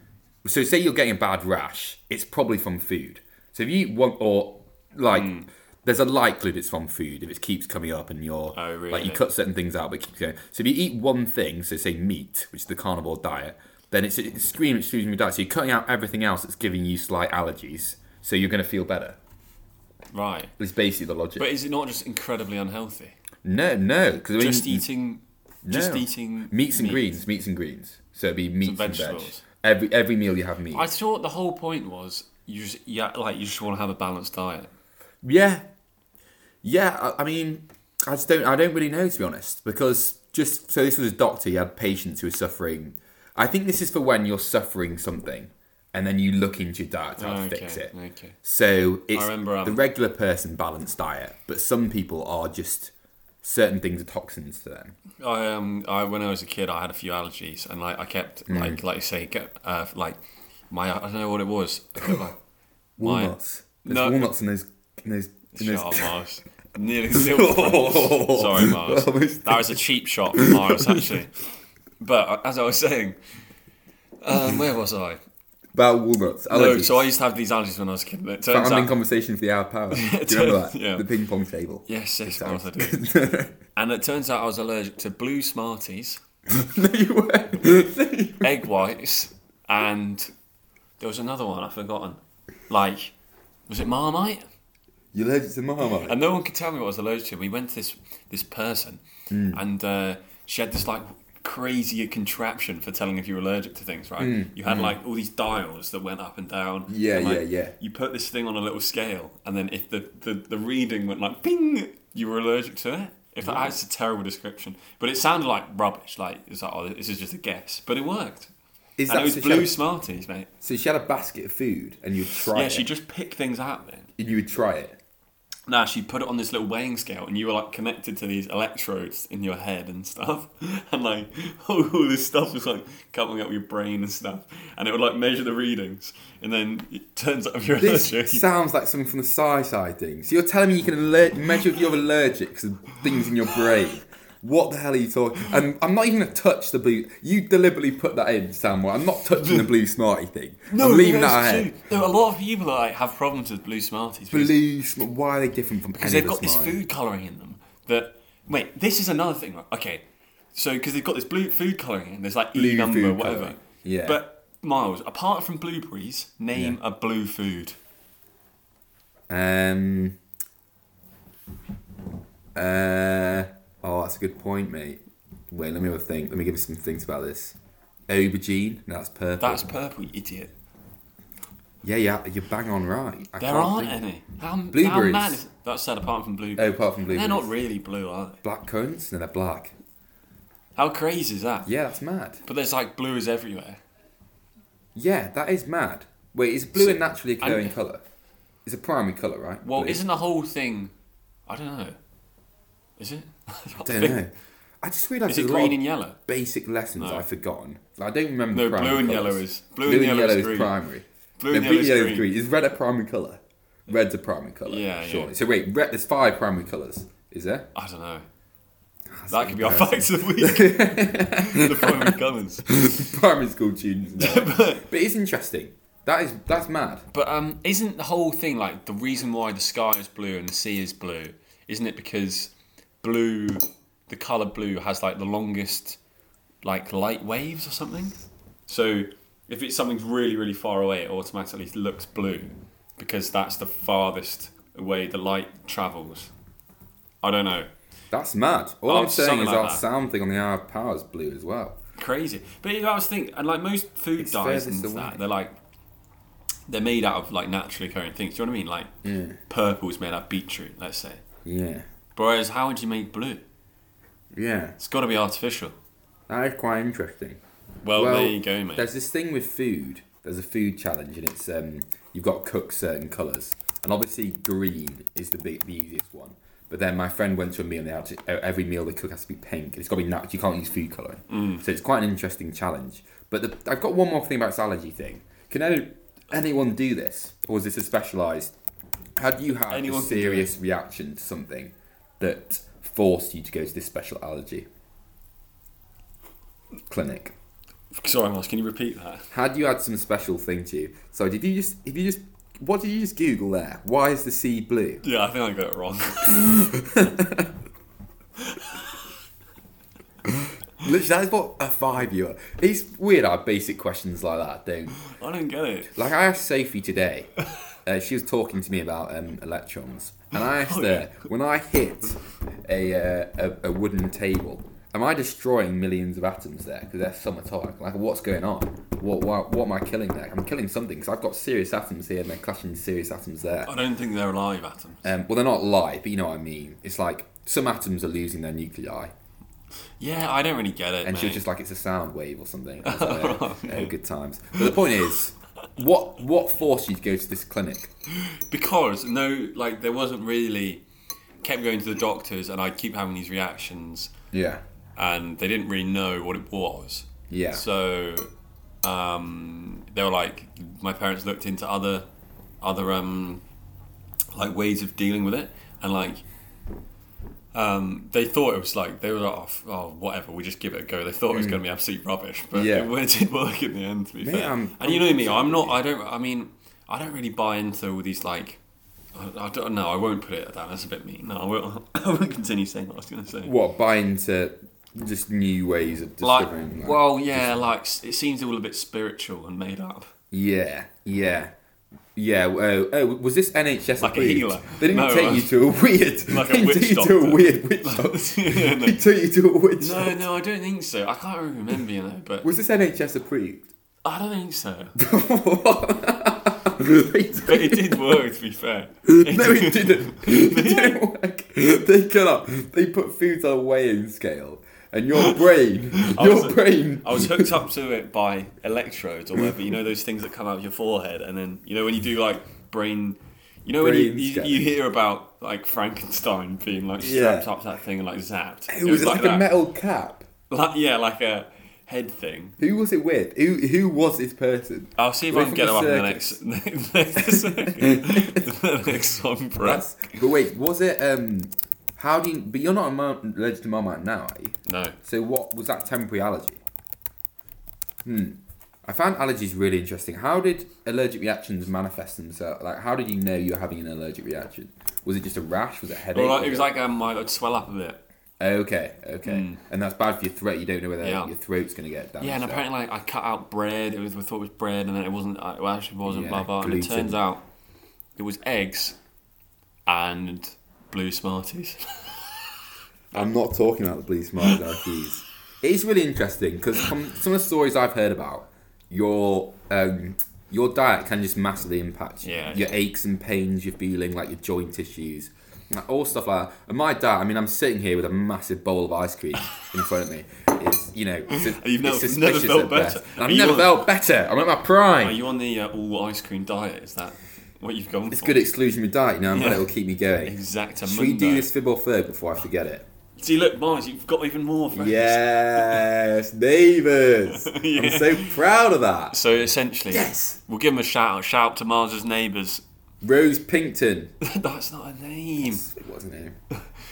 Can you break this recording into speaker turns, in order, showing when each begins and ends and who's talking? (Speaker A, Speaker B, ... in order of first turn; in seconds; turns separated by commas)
Speaker A: 0.4-19.2, Speaker B: 5.1-5.5, Speaker B: 8.5-9.2, Speaker B: 20.1-20.5, Speaker A: 20.6-21.5, Speaker B: 21.4-23.1, Speaker A: 23.4-24.8, Speaker B: 24.4-27.1, Speaker A: 25.6-30.9, Speaker B: 28.6-29.4, Speaker B: 30.7-34.7, Speaker A: 35.2-35.6, Speaker A: 36.6-55.0, Speaker B: 47.2-48.3, Speaker B: 49.1-49.8, Speaker B: 55.2-62.4, Speaker A: 58.5-58.8, Speaker A: 62.0-62.2, Speaker A: 63.0-66.2, Speaker B: 63.0-64.2, Speaker B: 65.5-71.3, Speaker A: 67.1-69.8, Speaker A: 70.3-71.0, Speaker B: 72.0-73.2, Speaker B: 74.2-75.2, Speaker A: 74.3-74.6, Speaker A: 75.7-77.1, Speaker B: 76.5-79.0, Speaker A: 78.5-83.5, Speaker B: 79.9-81.0, Speaker B: 81.9-83.0, Speaker B: 83.7-86.2, Speaker A: 86.5-88.5, Speaker B: 88.4-90.3, Speaker B: 91.0-93.1, Speaker B: 93.7-94.5, Speaker A: 95.1-96.2, Speaker B: 96.0-118.5, Speaker A: 99.3-99.6, Speaker A: 104.2-105.0, Speaker A: 106.9-107.7, Speaker A: 113.4-113.8, Speaker A: 119.0-119.7, Speaker B: 119.1-120.5, Speaker A: 120.6-122.9, Speaker B: 122.5-124.1, Speaker A: 124.2-125.0, Speaker B: 125.7-138.4, Speaker A: 137.8-151.8, Speaker B: 150.7-154.6, Speaker A: 154.3-156.8, Speaker B: 156.0-167.8, Speaker A: 162.5-164.2, Speaker A: 169.3-170.2, Speaker A: 172.5-177.6, Speaker A: 178.1-179.7, Speaker B: 179.4-180.5, Speaker A: 181.8-184.0, Speaker B: 183.4-188.4, Speaker A: 184.7-185.4, Speaker A: 186.6-187.5, Speaker A: 188.4-189.7, Speaker B: 190.8-191.7, Speaker A: 191.6-192.4, Speaker B: 192.4-193.8, Speaker A: 194.9-198.0, Speaker B: 196.7-197.7, Speaker A: 198.6-200.0, Speaker B: 199.6-200.9, Speaker B: 201.5-202.0, Speaker B: 203.0-204.2, Speaker A: 203.8-217.7, Speaker B: 205.3-206.2, Speaker B: 207.0-207.2, Speaker B: 208.5-210.7, Speaker B: 211.4-212.3, Speaker B: 214.7-215.3, Speaker B: 217.7-218.2, Speaker A: 219.1-227.1, Speaker B: 219.3-222.7, Speaker B: 224.2-224.8, Speaker B: 227.1-236.0, Speaker B: 236.6-246.3, Speaker B: 247.2-247.7, Speaker A: 248.1-251.8, Speaker B: 248.9-249.8, Speaker B: 252.0-255.5, Speaker A: 254.2-255.2, Speaker B: 256.7-258.9, Speaker A: 259.0-259.4, Speaker B: 259.5-261.2, Speaker A: 261.4-261.9, Speaker B: 262.1-263.4, Speaker A: 264.3-264.8, Speaker B: 264.8-265.7, Speaker A: 266.3-267.4, Speaker B: 267.8-268.9, Speaker A: 267.9-288.5, Speaker B: 281.3-281.6, Speaker A: 289.2-294.7, Speaker B: 289.7-290.5, Speaker A: 296.9-297.3, Speaker B: 297.9-299.3, Speaker A: 299.3-305.0, Speaker B: 305.0-306.6, Speaker A: 306.3-307.5, Speaker B: 308.5-308.7, Speaker A: 310.3-314.9, Speaker B: 315.0-316.1, Speaker A: 315.9-317.3, Speaker A: 317.8-333.7, Speaker B: 320.5-321.2, Speaker B: 333.6-335.1, Speaker A: 335.0-339.1, Speaker B: 340.0-341.4, Speaker A: 341.0-347.9, Speaker B: 342.8-343.9, Speaker B: 348.2-350.8, Speaker B: 351.4-354.1, Speaker A: 354.3-354.6, Speaker B: 354.9-358.3, Speaker A: 357.3-357.6, Speaker B: 358.8-362.1, Speaker B: 362.6-363.4, Speaker B: 364.3-366.2, Speaker B: 367.5-378.6, Speaker A: 371.3-371.6, Speaker A: 372.5-372.9, Speaker A: 374.2-375.8, Speaker B: 379.1-383.5, Speaker A: 383.4-387.5, Speaker B: 386.2-390.1, Speaker A: 390.3-391.5, Speaker A: 392.1-400.2, Speaker B: 394.0-395.6, Speaker B: 396.3-399.0, Speaker B: 399.8-402.5, Speaker A: 402.4-403.7, Speaker B: 404.0-404.9, Speaker A: 404.9-408.0, Speaker B: 407.4-411.0, Speaker A: 409.1-417.5, Speaker B: 416.0-429.5, Speaker A: 423.7-424.7, Speaker A: 427.0-427.5, Speaker A: 428.7-430.3, Speaker B: 430.5-432.6, Speaker A: 432.6-436.4, Speaker B: 435.0-439.9, Speaker A: 437.2-438.4, Speaker A: 439.6-446.6, Speaker B: 444.7-444.9, Speaker A: 448.0-456.7, Speaker B: 456.1-458.0, Speaker A: 458.4-462.6, Speaker B: 459.2-459.6, Speaker B: 461.0-461.3, Speaker B: 462.2-467.4, Speaker A: 466.0-467.2, Speaker B: 468.1-469.0, Speaker B: 469.9-472.5, Speaker A: 473.1-495.2, Speaker B: 482.2-482.8, Speaker B: 491.3-493.9, Speaker B: 495.0-498.5, Speaker A: 498.1-502.9, Speaker B: 499.3-499.7, Speaker B: 500.2-501.5, Speaker B: 503.2-505.9, Speaker A: 504.7-509.2, Speaker B: 507.3-508.4, Speaker B: 509.1-512.6, Speaker A: 509.9-510.4, Speaker A: 513.0-514.1, Speaker B: 514.2-515.7, Speaker A: 515.4-516.4